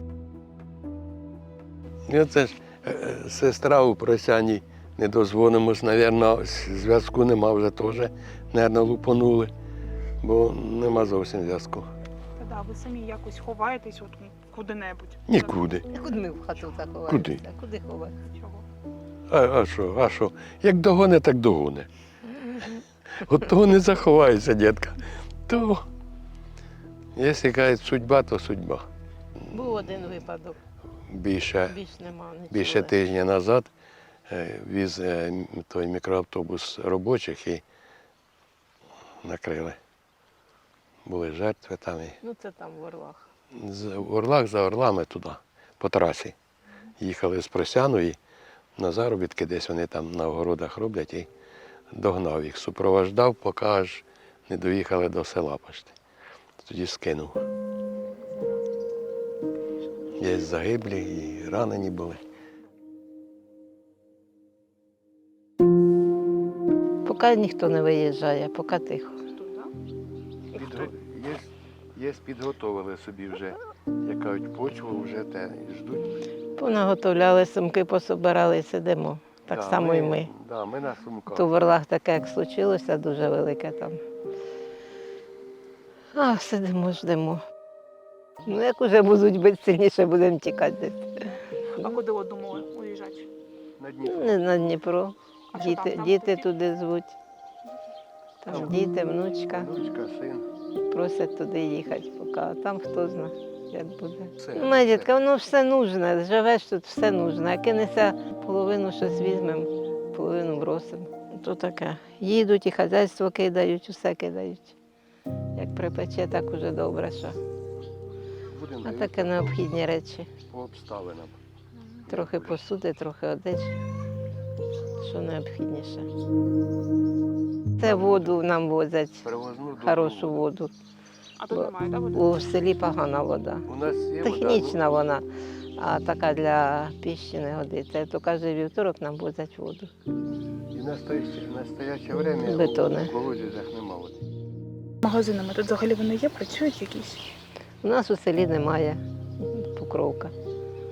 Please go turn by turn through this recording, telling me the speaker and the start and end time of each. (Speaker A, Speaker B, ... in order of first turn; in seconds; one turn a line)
Speaker A: 2.1-9.5
Speaker A: 10.2-11.9
Speaker B: 12.4-15.4
Speaker A: 15.3-15.9
Speaker C: 15.9-18.1
Speaker A: 17.1-17.4
Speaker B: 18.4-18.6
Speaker A: 19.3-21.9
Speaker C: 22.3-22.8
Speaker A: 23.2-25.8
Speaker A: 27.2-28.8
Speaker C: 29.5-30.6
Speaker A: 31.1-31.8
Speaker C: 31.7-32.9
Speaker A: 32.5-33.7
Speaker A: 34.3-37.6
Speaker A: 39.2-39.8
Speaker A: 41.1-42.2
Speaker C: 42.2-43.3
Speaker A: 43.5-46.4
Speaker A: 47.0-48.2
Speaker A: 48.8-51.3
Speaker A: 51.9-56.0
Speaker A: 56.6-57.4
Speaker A: 60.1-62.2
Speaker C: 67.0-69.2
Speaker B: 69.3-69.7
Speaker A: 70.6-76.0
Speaker C: 76.6-80.3
Speaker A: 79.5-81.5
Speaker C: 81.3-84.0
Speaker C: 86.2-87.4
Speaker C: 88.4-91.4
Speaker B: 91.8-93.3
Speaker A: 93.8-94.4
Speaker C: 94.0-97.1
Speaker B: 95.5-96.5
Speaker C: 98.4-99.7
Speaker A: 98.5-98.8
Speaker A: 99.5-100.5
Speaker C: 100.9-114.8
Speaker A: 104.4-105.1
Speaker C: 115.6-117.4
Speaker A: 118.5-119.6
Speaker C: 118.8-120.3
Speaker A: 120.5-121.3
Speaker A: 122.1-122.6
Speaker C: 122.1-123.8
Speaker C: 125.0-126.1
Speaker C: 127.8-129.3
Speaker A: 127.9-128.4
Speaker A: 129.2-130.5
Speaker C: 129.8-130.7
Speaker B: 131.4-132.4
Speaker C: 131.5-133.7
Speaker A: 133.7-135.0
Speaker C: 134.2-135.3
Speaker C: 135.8-139.9
Speaker A: 140.7-144.2
Speaker C: 142.4-143.2
Speaker B: 145.0-147.3
Speaker C: 147.8-150.3